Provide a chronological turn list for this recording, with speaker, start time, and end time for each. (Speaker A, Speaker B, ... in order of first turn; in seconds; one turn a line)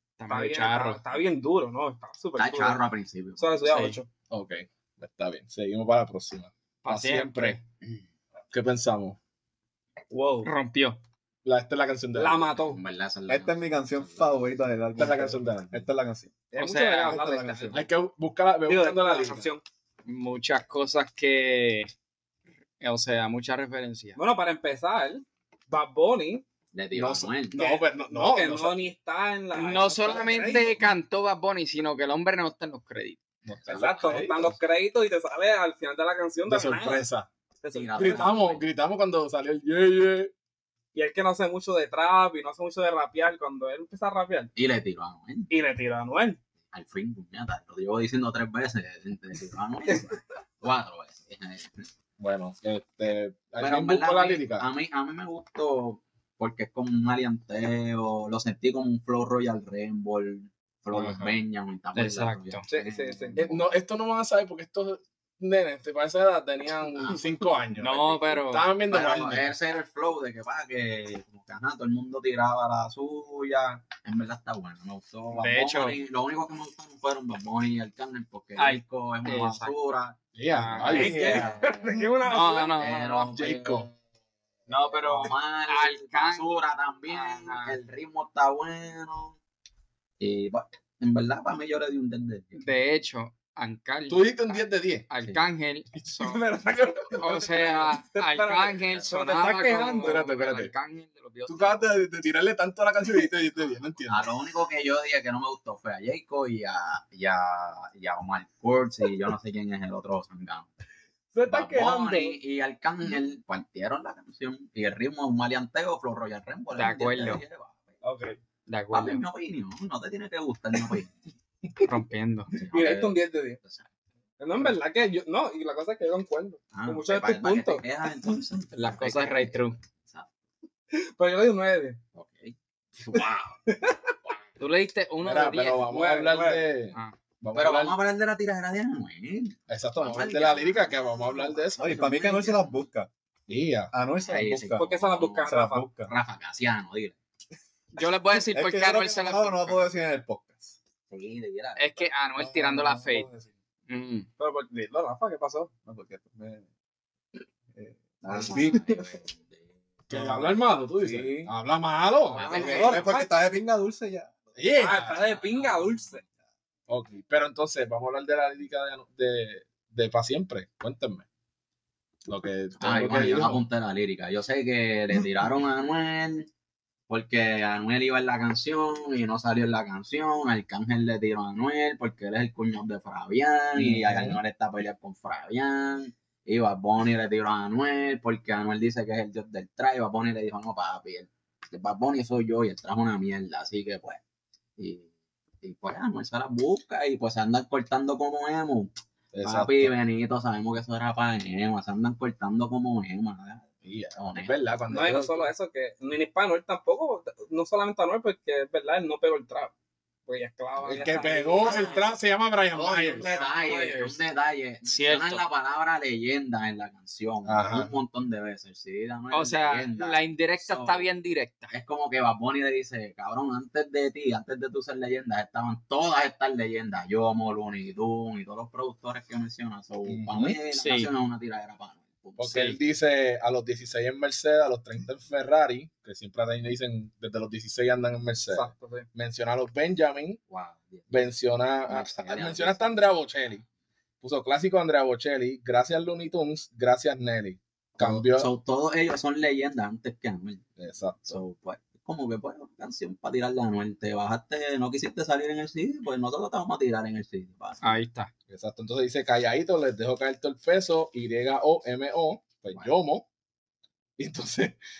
Speaker A: 0.2-1.0
Speaker B: 0.3-2.8
Speaker C: 2.4-3.6
Speaker B: 3.4-4.1
Speaker A: 3.7-4.0
Speaker D: 4.3-7.6
Speaker A: 6.8-7.6
Speaker D: 8.5-9.2
Speaker B: 10.1-10.5
Speaker A: 10.4-11.0
Speaker D: 11.4-12.6
Speaker B: 12.1-12.8
Speaker C: 12.6-14.4
Speaker E: 13.3-16.3
Speaker D: 15.0-15.8
Speaker B: 16.5-17.9
Speaker A: 16.6-17.2
Speaker E: 17.0-17.8
Speaker D: 17.7-19.5
Speaker B: 18.6-19.6
Speaker A: 20.1-21.9
Speaker A: 22.8-24.2
Speaker B: 24.2-26.4
Speaker C: 26.7-27.6
Speaker D: 26.9-28.9
Speaker B: 27.5-30.7
Speaker A: 29.5-33.2
Speaker D: 33.5-34.5
Speaker C: 33.6-34.3
Speaker B: 33.7-37.0
Speaker D: 36.5-37.3
Speaker B: 37.6-38.3
Speaker C: 37.7-38.6
Speaker D: 37.9-40.3
Speaker B: 40.9-44.5
Speaker C: 44.5-45.5
Speaker B: 45.5-46.4
Speaker C: 46.7-51.9
Speaker D: 52.2-54.6
Speaker C: 53.6-63.7
Speaker D: 60.9-61.4
Speaker A: 61.9-62.6
Speaker B: 62.7-63.4
Speaker D: 63.3-69.5
Speaker C: 67.0-67.3
Speaker A: 67.8-68.7
Speaker C: 68.9-80.2
Speaker A: 75.3-76.0
Speaker A: 78.6-79.8
Speaker D: 80.3-81.4
Speaker A: 80.5-81.7
Speaker C: 80.7-81.9
Speaker B: 80.9-82.8
Speaker A: 82.2-83.4
Speaker C: 82.8-83.9
Speaker D: 83.3-83.9
Speaker A: 84.7-86.5
Speaker C: 84.7-89.4
Speaker A: 87.1-87.8
Speaker C: 90.2-92.6
Speaker A: 92.6-94.2
Speaker D: 94.1-95.1
Speaker A: 95.1-96.4
Speaker D: 96.0-97.8
Speaker A: 97.1-101.8
Speaker B: 98.1-100.2
Speaker D: 100.0-100.7
Speaker D: 101.5-104.3
Speaker C: 104.1-110.7
Speaker B: 111.3-112.4
Speaker C: 111.4-117.9
Speaker A: 116.7-117.4
Speaker B: 118.0-118.4
Speaker A: 118.7-119.2
Speaker C: 118.9-121.2
Speaker A: 121.8-122.5
Speaker C: 122.5-123.9
Speaker B: 122.7-123.6
Speaker B: 124.4-127.8
Speaker C: 126.7-130.3
Speaker A: 128.7-129.8
Speaker B: 130.9-132.0
Speaker C: 132.1-133.4
Speaker B: 133.1-134.1
Speaker A: 134.6-135.9
Speaker D: 135.2-137.9
Speaker B: 135.9-136.6
Speaker C: 137.5-142.8
Speaker D: 139.7-142.0
Speaker E: 141.8-143.1
Speaker D: 143.5-143.9
Speaker E: 143.9-144.9
Speaker C: 144.2-147.2
Speaker B: 144.8-145.8
Speaker E: 145.4-146.1
Speaker A: 147.9-149.9
Speaker E: 148.3-150.8
Speaker C: 151.1-152.1
Speaker A: 151.8-153.3
Speaker E: 152.4-153.5
Speaker A: 153.9-154.3
Speaker B: 154.4-155.7
Speaker E: 155.8-156.6
Speaker E: 157.7-159.2
Speaker C: 158.3-159.7
Speaker D: 160.1-163.1
Speaker E: 160.1-161.5
Speaker B: 162.3-163.3
Speaker C: 162.4-163.1
Speaker E: 162.5-164.5
Speaker D: 164.6-165.4
Speaker B: 164.8-166.2
Speaker D: 166.9-171.3
Speaker D: 172.3-173.6
Speaker C: 172.8-176.5
Speaker C: 177.1-194.2
Speaker D: 183.8-184.4
Speaker C: 194.8-195.1
Speaker C: 195.6-204.6
Speaker D: 199.3-199.9
Speaker D: 203.8-205.5
Speaker B: 204.9-209.7
Speaker B: 210.2-212.0
Speaker D: 210.8-213.3
Speaker C: 212.9-221.0
Speaker B: 213.2-214.0
Speaker A: 213.2-214.1
Speaker A: 214.8-215.4
Speaker D: 217.4-217.9
Speaker A: 219.3-221.7
Speaker C: 221.7-232.9
Speaker D: 230.0-230.6
Speaker A: 230.7-231.1
Speaker D: 232.4-240.4
Speaker A: 232.5-232.8
Speaker B: 238.5-239.1
Speaker C: 240.5-241.3
Speaker D: 241.1-243.6
Speaker C: 241.9-243.1
Speaker D: 244.2-248.5
Speaker C: 248.0-250.7
Speaker D: 250.8-251.4
Speaker C: 251.3-257.9
Speaker A: 257.8-258.3
Speaker D: 258.5-263.3
Speaker D: 264.2-264.8